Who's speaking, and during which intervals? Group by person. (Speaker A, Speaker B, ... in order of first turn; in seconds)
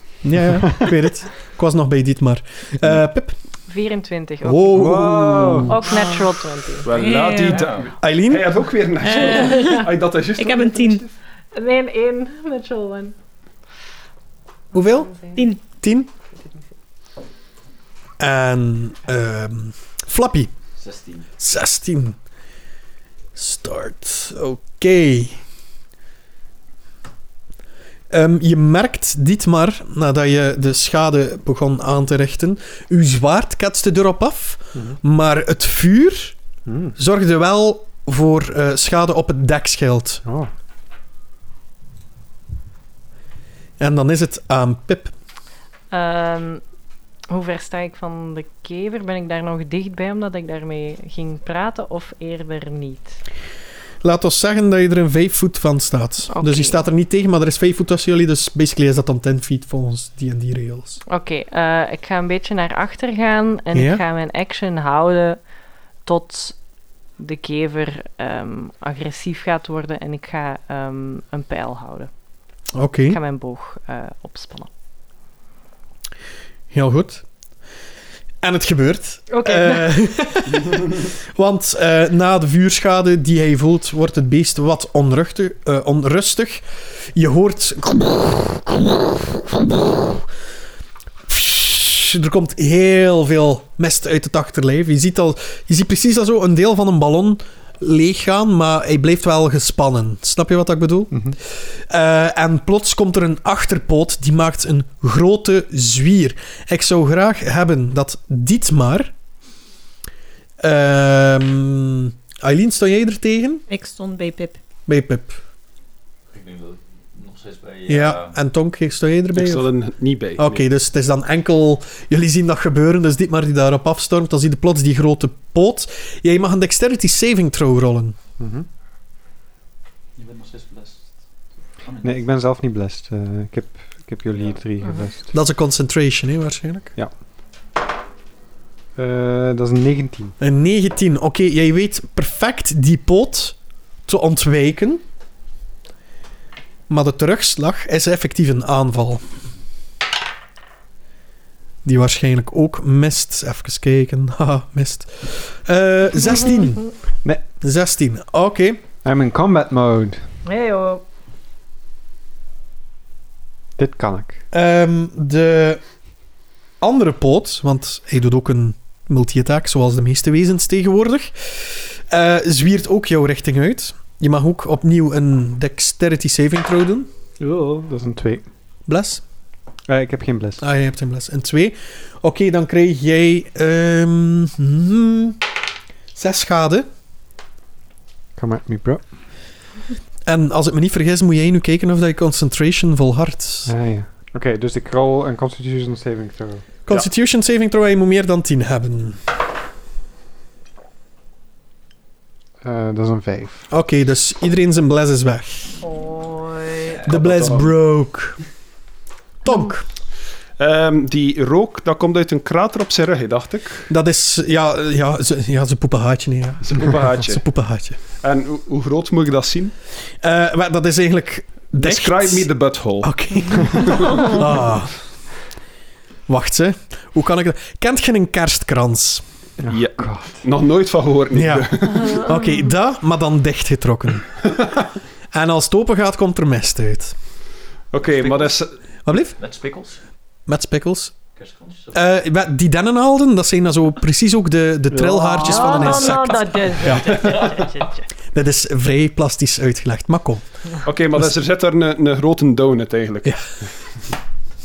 Speaker A: 0.2-3.3, 4.4-5.9, 8.0-8.7, 14.7-15.1, 15.7-16.1, 18.2-20.5, 21.4-22.2, 23.4-25.4, 28.1-36.4, 37.0-40.2, 43.8-45.1, 54.0-61.0, 63.7-64.0, 72.7-73.2, 76.7-77.2, 78.4-86.6, 87.1-89.1, 89.7-90.2, 91.3-109.1, 110.6-113.6, 114.9-115.4, 117.9-119.7, 120.4-128.2, 135.3-136.9, 140.4-145.0, 146.9-149.2, 151.8-156.9, 157.6-158.8, 164.5-165.8, 166.8-177.1, 178.9-179.2, 180.6-185.4, 186.1-186.9, 190.2-193.7, 196.9-199.2, 203.7-205.7, 207.1-208.4, 209.4-209.9, 213.9-218.0, 220.2-222.5, 223.0-225.0, 226.3-229.2, 231.3-234.3, 235.3-237.1, 239.0-239.4, 240.5-241.2, 241.9-247.3, 248.3-250.4
Speaker B: 3.7-4.8, 5.7-6.9, 9.1-9.8, 11.5-13.1, 14.7-15.4, 45.9-46.6, 47.3-53.2, 56.3-56.8, 61.0-65.4, 66.0-66.6, 67.2-72.1, 73.1-74.7, 79.3-80.2, 160.4-161.0, 205.8-207.0, 245.4-248.0
Speaker C: 4.8-5.7, 36.6-36.9, 40.2-40.5, 101.1-101.4, 128.4-128.7, 132.0-135.3, 139.0-140.3, 159.0-160.2, 163.8-164.4, 177.4-178.5, 179.9-180.6, 188.4-189.0, 193.7-196.6, 202.6-203.7, 229.6-230.4, 244.9-246.2
Speaker D: 5.8-6.3, 6.8-7.7, 9.0-11.1, 15.3-15.6, 113.7-114.6
Speaker E: 6.8-10.6, 119.3-120.6, 207.0-207.7, 210.6-213.9, 216.6-217.4, 218.1-219.7, 221.8-224.5, 229.7-232.2, 237.9-238.7, 250.8-253.4
Speaker F: 7.5-7.9, 20.8-21.3, 116.3-118.4, 130.2-131.2, 131.8-132.3, 238.1-238.5, 239.4-240.0, 241.3-242.0